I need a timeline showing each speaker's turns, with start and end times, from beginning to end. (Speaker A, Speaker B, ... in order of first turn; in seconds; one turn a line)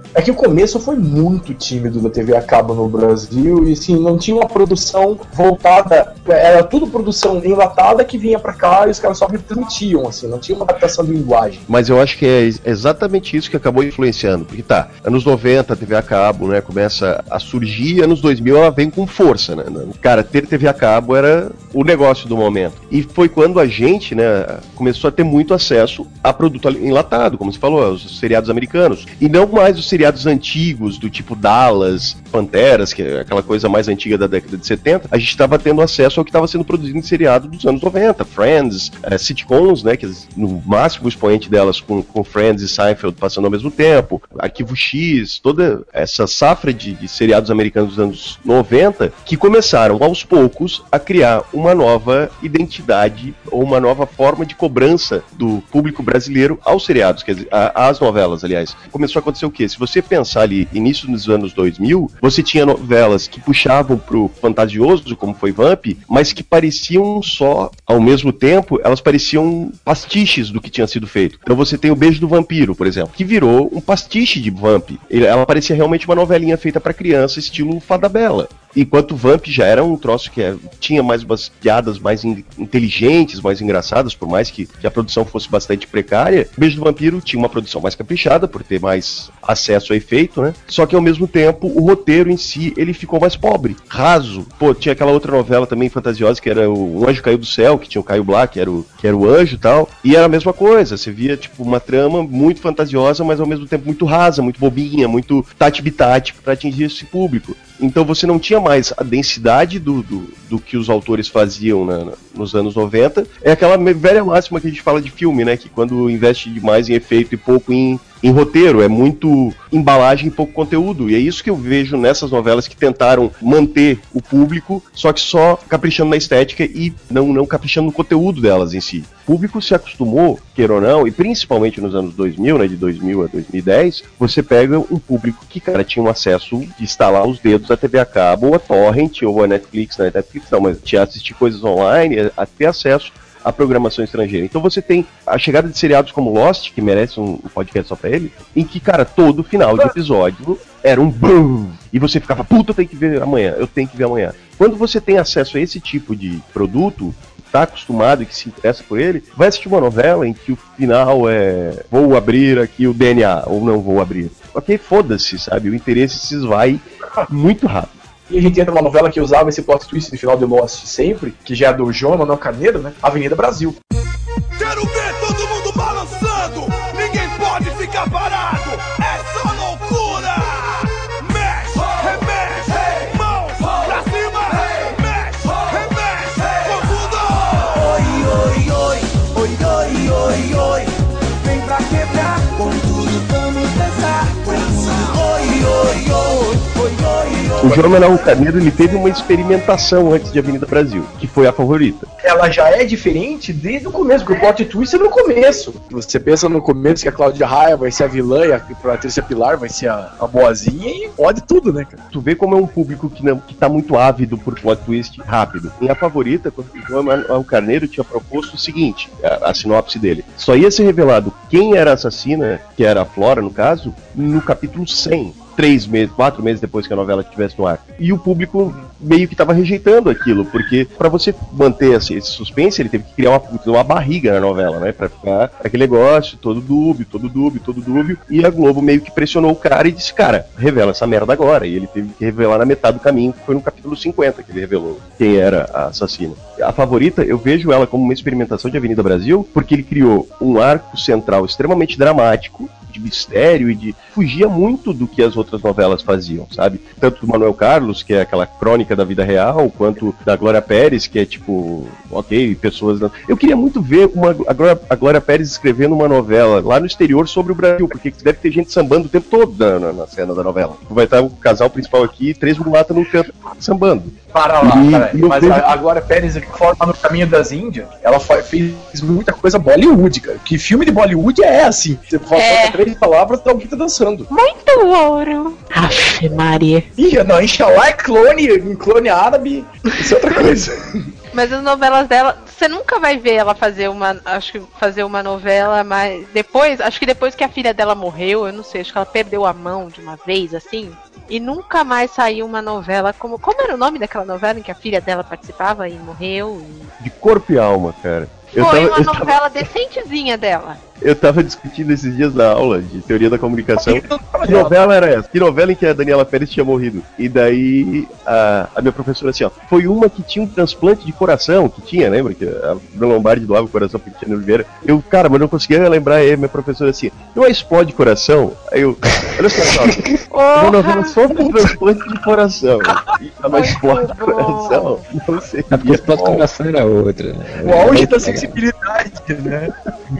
Speaker A: 0.1-11.6
Speaker B: 11.7-167.9
Speaker A: 168.3-173.8
Speaker C: 174.5-187.9
Speaker B: 197.6-202.1
Speaker A: 202.2-212.0
Speaker B: 212.1-275.7
Speaker A: 274.3-284.3
Speaker D: 282.3-282.8
Speaker D: 284.3-286.9
Speaker A: 287.0-290.8
Speaker D: 291.3-306.9
Speaker B: 307.0-309.7
Speaker D: 308.6-310.8
Speaker B: 311.0-336.4
Speaker A: 313.8-314.7
Speaker D: 330.3-331.2
Speaker D: 333.5-334.9
Speaker E: 335.7-338.6
Speaker A: 337.6-339.7